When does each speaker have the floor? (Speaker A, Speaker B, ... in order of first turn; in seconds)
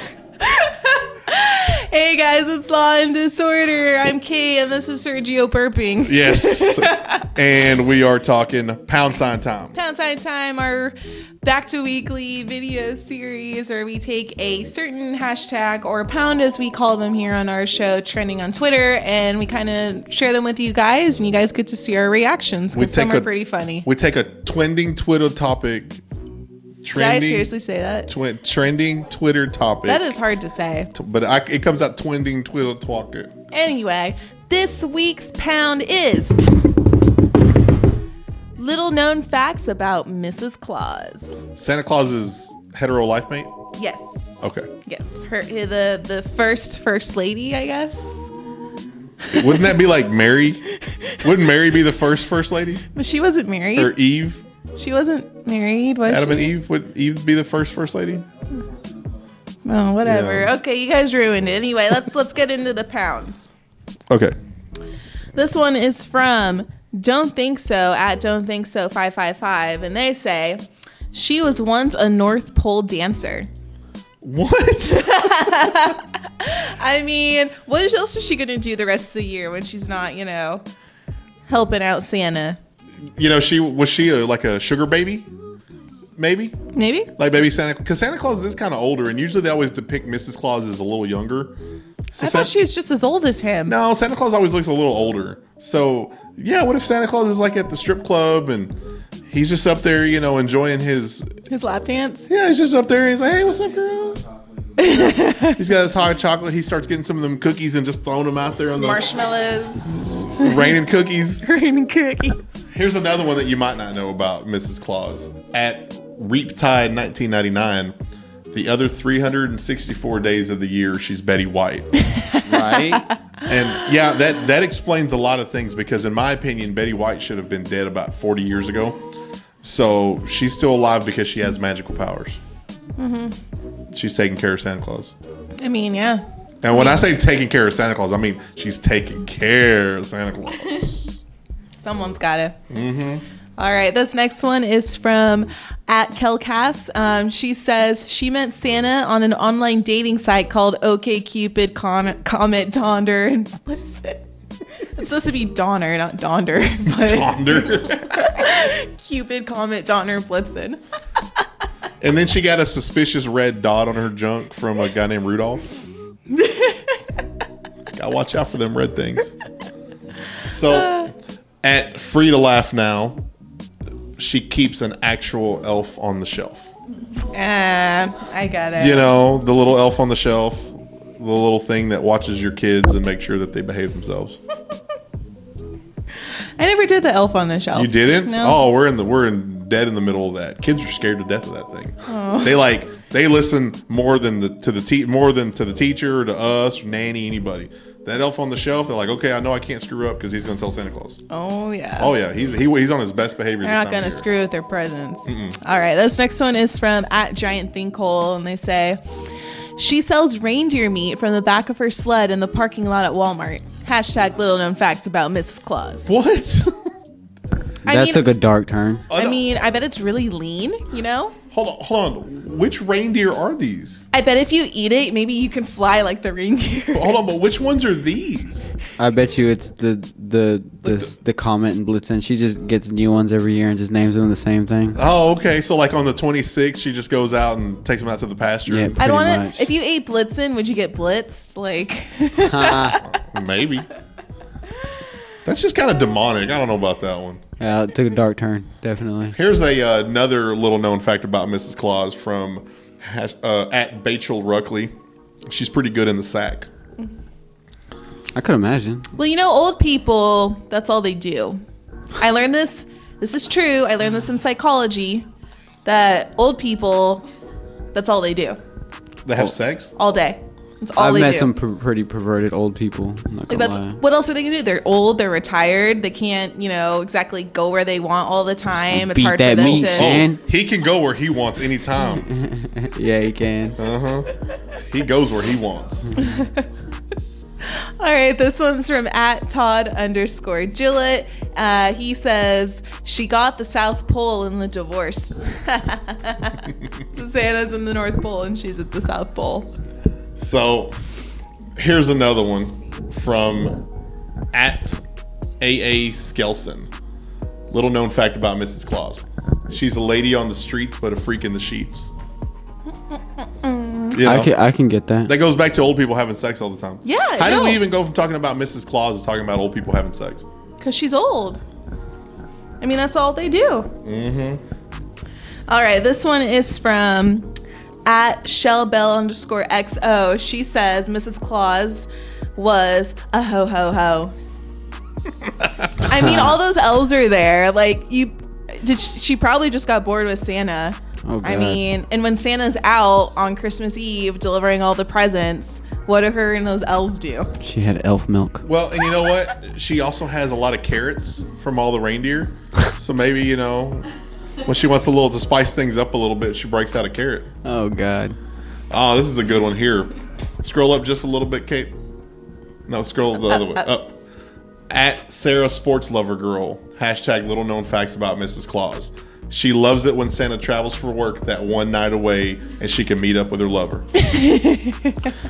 Speaker A: 0.4-7.3, 9.7-23.9, 26.9-28.1, 29.8-30.9, 33.5-36.4, 38.6-41.5, 43.7-48.3, 49.3-49.6, 50.9-51.2, 52.9-53.9, 54.7-56.5, 59.6-63.5, 65.3-70.6, 71.1-73.5, 75.0-80.6, 81.5-82.6, 86.7-87.1, 92.2-93.7, 101.5-102.3, 104.8-105.6, 108.6-110.8, 111.4-112.6, 122.0-123.9, 133.0-133.4, 135.6-137.0, 141.8-142.6, 143.6-154.2, 154.8-160.8, 166.3-167.0, 170.7-171.1, 177.3-179.1, 186.6-188.6, 192.1-192.6, 201.3-202.1, 203.6-209.0, 209.8-216.1, 217.8-218.3, 219.1-221.3, 224.1-227.2, 239.0-243.2, 259.1-261.6, 262.2-265.3, 265.8-267.2, 267.9-268.6, 269.9-271.5, 273.5-280.2, 286.2-286.6, 287.6-299.7, 313.4-314.2, 317.0-317.8, 320.8-321.6, 322.8-323.9, 325.7-327.5, 328.1-334.3, 336.0-347.5, 374.2-375.3
Speaker B: 6.0-9.7, 22.7-23.3, 23.8-26.0, 26.8-27.5, 28.1-30.1, 30.9-33.3, 41.5-43.5, 44.4-44.7, 49.3-50.6, 51.2-52.8, 53.8-54.4, 56.0-58.2, 60.0-60.5, 64.1-64.3, 74.2-75.6, 83.2-85.3, 86.2-86.6, 87.2-91.5, 92.1-92.5, 93.7-98.8, 99.3-101.3, 102.3-104.2, 105.4-109.0, 110.3-111.5, 112.7-117.9, 118.5-121.9, 123.5-129.0, 129.6-132.4, 133.9-135.1, 136.6-141.2, 142.7-143.2, 156.8-158.2, 162.0-165.6, 167.9-169.3, 170.5-171.1, 171.6-173.2, 174.2-176.7, 178.8-184.4, 187.7-201.2, 202.0-204.2, 205.3-205.6, 216.1-216.7, 219.1-219.4, 221.5-224.0, 226.9-228.7, 230.8-231.1, 234.9-238.9, 243.0-243.9, 245.4-247.4, 249.3-254.9, 255.5-256.7, 269.2-269.9, 279.7-282.3, 283.8-286.2, 300.4-301.0, 301.8-303.8, 304.5-305.0, 305.6-306.9, 307.7-312.1, 314.1-314.5, 315.2-320.4, 324.0-324.6, 348.6-354.1, 354.6-357.5, 358.9-361.9, 362.9-364.2, 364.9-374.0
Speaker C: 122.4-123.0, 217.8-219.0, 229.0-235.0, 238.7-239.7, 242.4-243.0, 247.6-249.3, 258.3-259.0, 271.0-274.0, 278.9-280.4, 282.2-283.8, 314.2-315.3, 336.1-336.6, 341.3-341.8, 347.6-348.6, 357.6-358.4